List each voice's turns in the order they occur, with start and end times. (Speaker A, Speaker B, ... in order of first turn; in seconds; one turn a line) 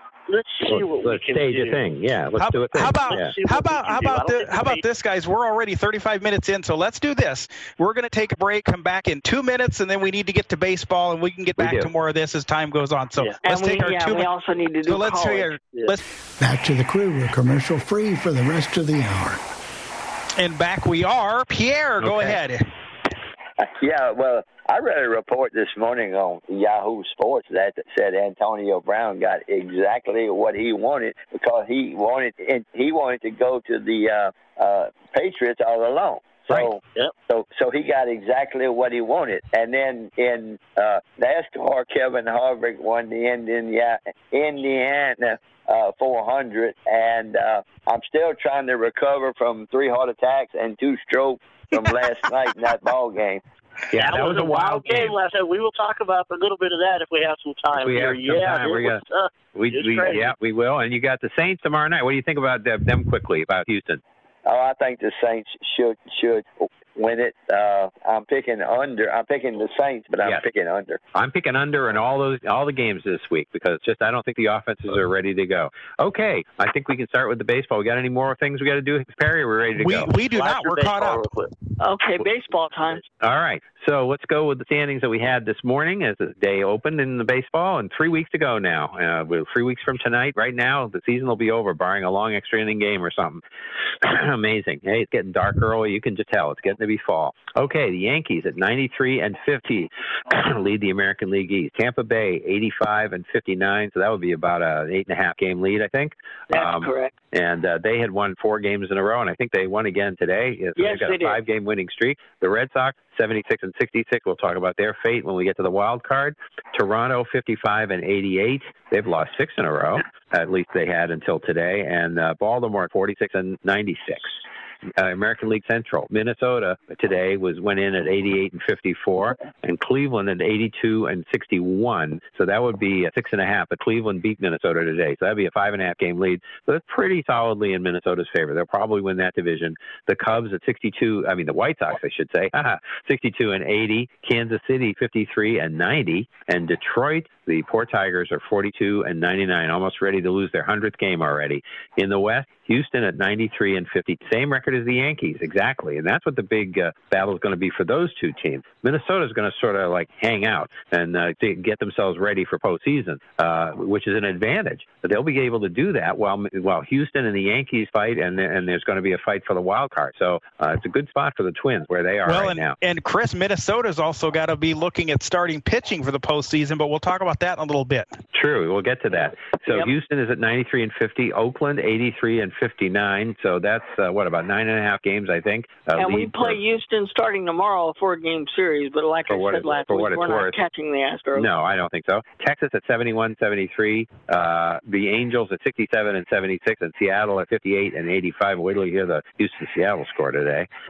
Speaker A: 0.3-1.8
Speaker B: 0.7-3.3
Speaker C: 2.4-14.3
Speaker A: 3.1-4.8
Speaker B: 11.6-11.9
Speaker D: 13.5-15.6
Speaker C: 14.9-16.0
Speaker E: 16.4-19.4
Speaker C: 20.4-22.7
Speaker B: 22.0-22.4
Speaker F: 23.6-53.4
Speaker B: 53.9-55.1
Speaker A: 54.0-60.3
Speaker B: 57.7-59.0
Speaker B: 59.5-64.0
Speaker F: 64.5-71.0
Speaker B: 71.1-80.1
Speaker C: 79.7-81.2
Speaker A: 80.3-81.5
Speaker D: 81.8-83.0
Speaker B: 83.2-93.4
Speaker B: 94.0-124.4
Speaker D: 106.5-107.1
Speaker D: 110.8-111.4
Speaker B: 125.0-172.8
Speaker C: 172.3-178.1
Speaker B: 178.3-186.6
Speaker D: 186.0-191.5
Speaker B: 189.3-190.6
Speaker B: 191.3-200.7